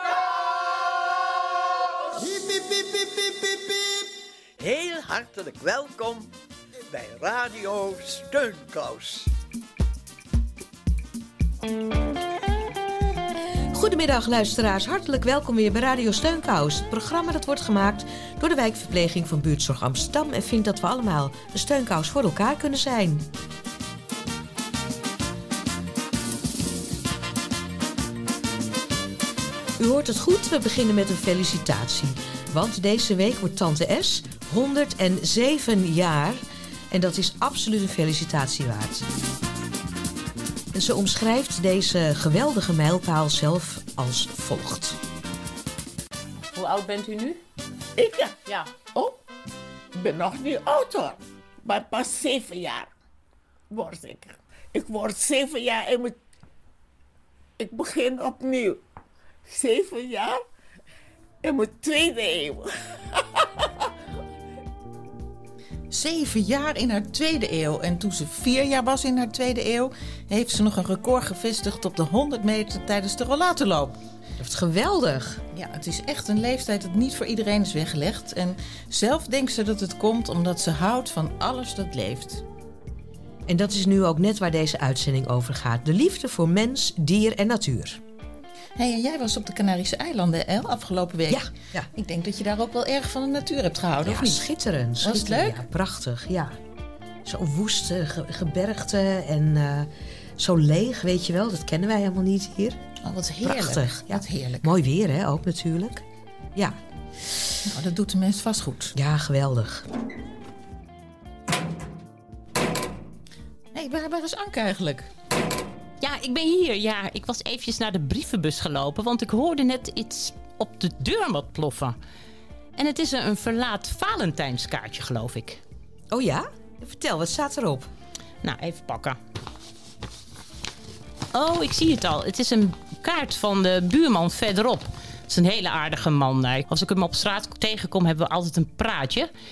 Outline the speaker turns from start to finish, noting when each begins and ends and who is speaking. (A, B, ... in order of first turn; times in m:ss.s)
0:02.1-0:09.3 A
0:13.7-0:23.2 B
0:29.8-0:39.0 B
0:40.7-0:45.0 B
0:46.5-0:47.4 C
0:48.0-0:49.2 D
0:49.9-0:52.9 D
0:53.7-0:56.1 D
0:57.6-0:58.8 D
0:59.5-1:00.4 D
1:01.4-1:03.7 D
1:05.9-1:14.0 E
1:14.4-1:15.4 B
1:15.5-1:22.4 E
1:23.5-1:28.0 B
1:28.8-1:34.5 E
1:31.3-1:31.9 B
1:34.0-1:36.6 B
1:35.0-1:35.6 E
1:37.2-1:42.8 B
1:43.0-1:44.7 E
1:43.4-1:46.0 B
1:47.7-1:48.9 E
1:48.9-1:49.9 B
1:53.7-1:55.1 E
1:56.0-2:02.0 C
2:02.8-2:05.6 C
2:06.1-2:07.9 B
2:08.4-2:09.2 C
2:11.3-2:19.3 C